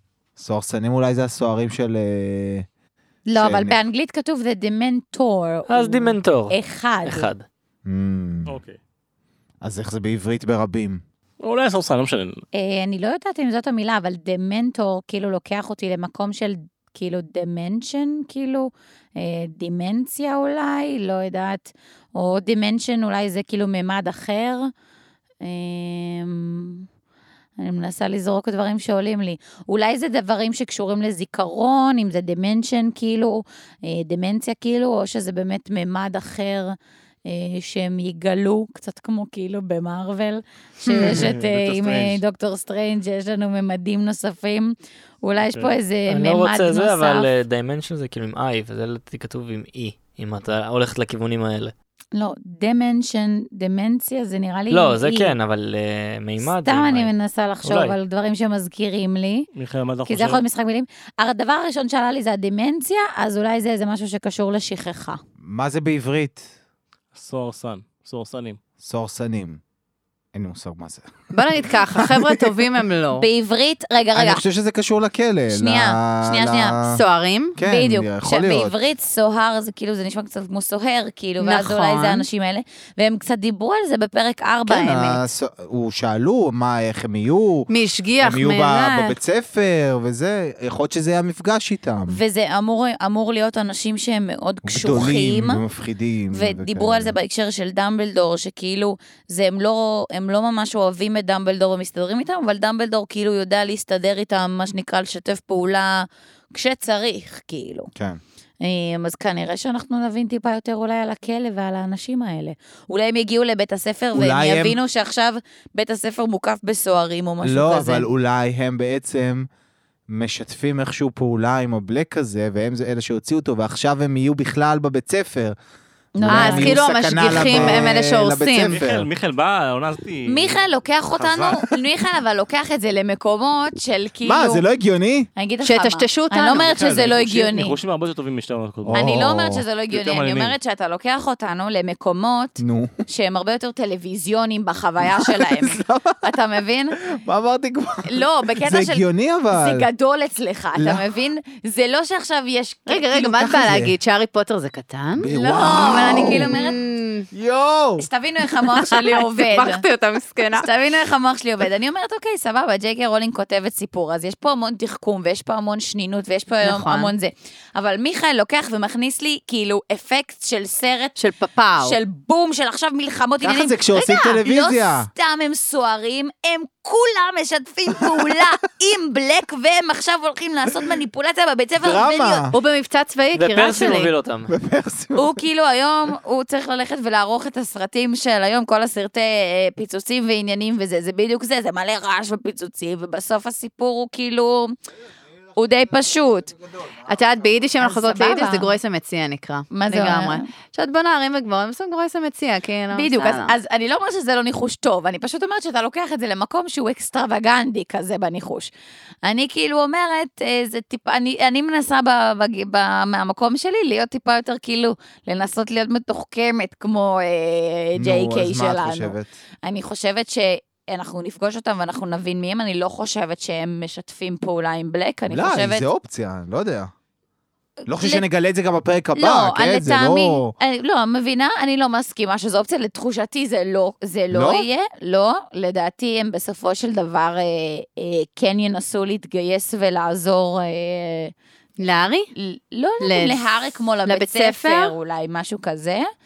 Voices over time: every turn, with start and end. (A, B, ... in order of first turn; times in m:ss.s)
0:00.4-0:02.7 A
0:03.3-0:07.3 B
0:03.4-0:03.8 A
0:05.7-0:07.5 C
0:07.8-0:08.6 A
0:08.5-0:08.8 D
0:09.6-0:11.0 A
0:11.4-0:12.4 D
0:12.5-0:24.7 B
0:25.4-0:26.8 B
0:27.6-0:47.3 B
0:40.9-0:41.3 E
0:41.0-0:42.2 D
0:45.5-0:45.8 D
0:46.1-0:51.7 C
0:52.1-0:55.4 B
0:54.7-0:57.1 C
0:56.4-0:59.5 B
0:57.6-0:58.0 C
0:59.5-1:00.4 D
1:00.1-1:05.2 B
1:05.4-1:06.5 A
1:07.1-1:08.6 D
1:08.8-1:09.6 A
1:10.3-1:12.5 A
1:11.3-1:13.3 E
1:13.2-1:14.4 B
1:14.1-1:17.0 A
1:15.5-1:16.8 B
1:16.9-1:17.6 E
1:17.6-1:18.9 A
1:17.6-1:25.0 B
1:21.4-1:22.3 E
1:24.7-1:25.2 E
1:24.7-1:27.7 A
1:27.7-1:29.2 E
1:28.2-1:32.2 A
1:32.1-1:35.6 B
1:34.6-1:37.2 A
1:36.3-1:47.9 B
1:48.0-1:48.2 A
1:48.6-1:58.1 B
1:54.1-1:54.8 A
1:57.4-1:59.5 A
2:00.1-2:05.6 A
2:06.2-2:07.9 B
2:06.2-2:09.1 A
2:06.3-2:08.8 E
2:08.7-2:11.6 D
2:10.3-2:14.6 B
2:14.2-2:15.3 A
2:15.4-2:17.8 B
2:15.6-2:16.8 E
2:16.6-2:19.3 D
2:18.8-2:19.6 A
2:18.9-2:27.0 B
2:19.9-2:20.6 D
2:22.6-2:22.9 A
2:25.0-2:26.2 A
2:27.1-2:29.9 A
2:28.0-2:33.4 B
2:30.8-2:31.0 A
2:32.9-2:37.3 E
2:33.2-2:34.0 A
2:35.2-2:36.6 A
2:35.3-2:36.8 B
2:37.3-2:38.1 A
2:38.0-2:39.8 B
2:38.7-2:40.7 E
2:40.6-2:51.2 B
2:46.6-2:47.1 E
2:51.2-2:52.0 E
2:51.8-3:02.4 B
2:53.4-2:55.1 A
2:58.1-2:58.4 A
3:01.8-3:02.6 A
3:02.5-3:04.1 E
3:03.3-3:04.5 C
3:04.5-3:05.4 A
3:05.2-3:14.8 B
3:15.6-3:16.5 B
3:16.7-3:17.2 A
3:17.1-3:23.5 E
3:17.8-3:18.7 B
3:19.7-3:20.5 B
3:22.9-3:28.7 B
3:29.2-3:45.9 B
3:38.0-3:39.3 A
3:45.3-3:46.9 A
3:47.9-3:48.2 B
3:47.9-3:50.5 A
3:49.2-4:01.3 B
3:54.3-3:54.7 A
4:01.8-4:02.3 E
4:02.4-4:06.1 B
4:03.0-4:03.5 E
4:04.0-4:05.0 E